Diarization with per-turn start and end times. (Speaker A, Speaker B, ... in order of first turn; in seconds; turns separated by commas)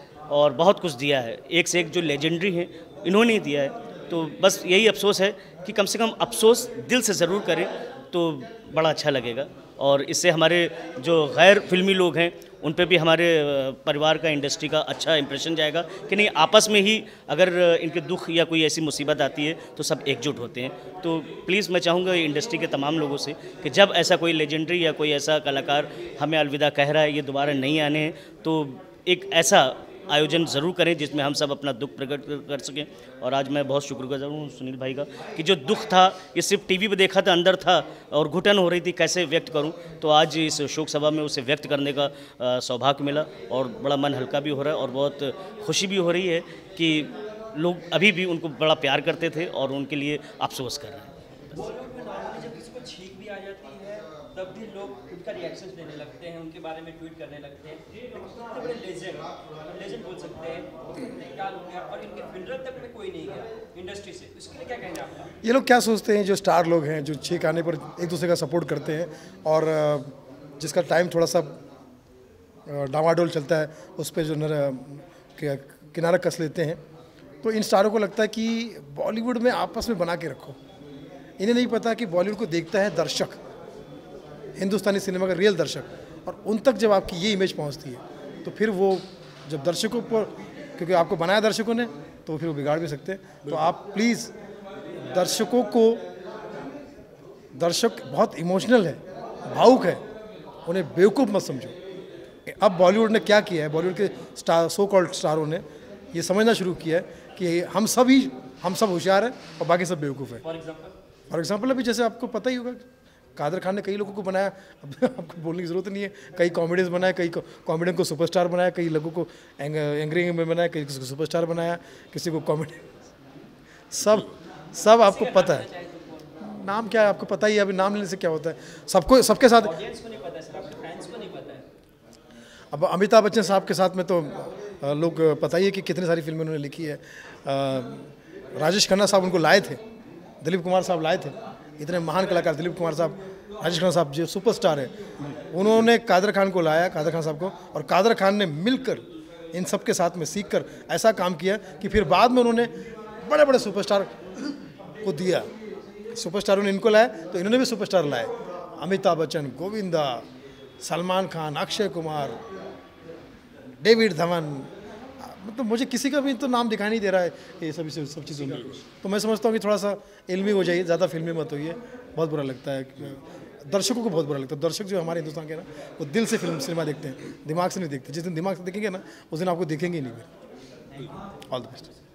Speaker A: 0.3-51.5, Speaker B: 51.6-65.3, Speaker C: 65.4-71.6, Speaker C: 72.7-76.8, Speaker C: 77.4-80.6, Speaker C: 81.4-83.4, Speaker C: 84.6-94.3, Speaker C: 95.1-96.0, Speaker C: 97.6-100.0, Speaker C: 100.7-101.8, Speaker C: 102.5-110.4, Speaker B: 110.4-110.9, Speaker C: 111.3-112.8, Speaker C: 113.4-122.8, Speaker C: 123.9-125.7, Speaker B: 125.1-126.3, Speaker C: 126.4-129.8, Speaker B: 129.6-131.7, Speaker C: 132.7-138.0, Speaker C: 138.6-139.8, Speaker C: 140.4-144.9, Speaker C: 145.5-154.1, Speaker C: 155.0-155.5, Speaker C: 156.2-160.2, Speaker C: 160.8-162.4, Speaker C: 163.8-164.7, Speaker C: 165.2-180.3, Speaker C: 181.5-181.9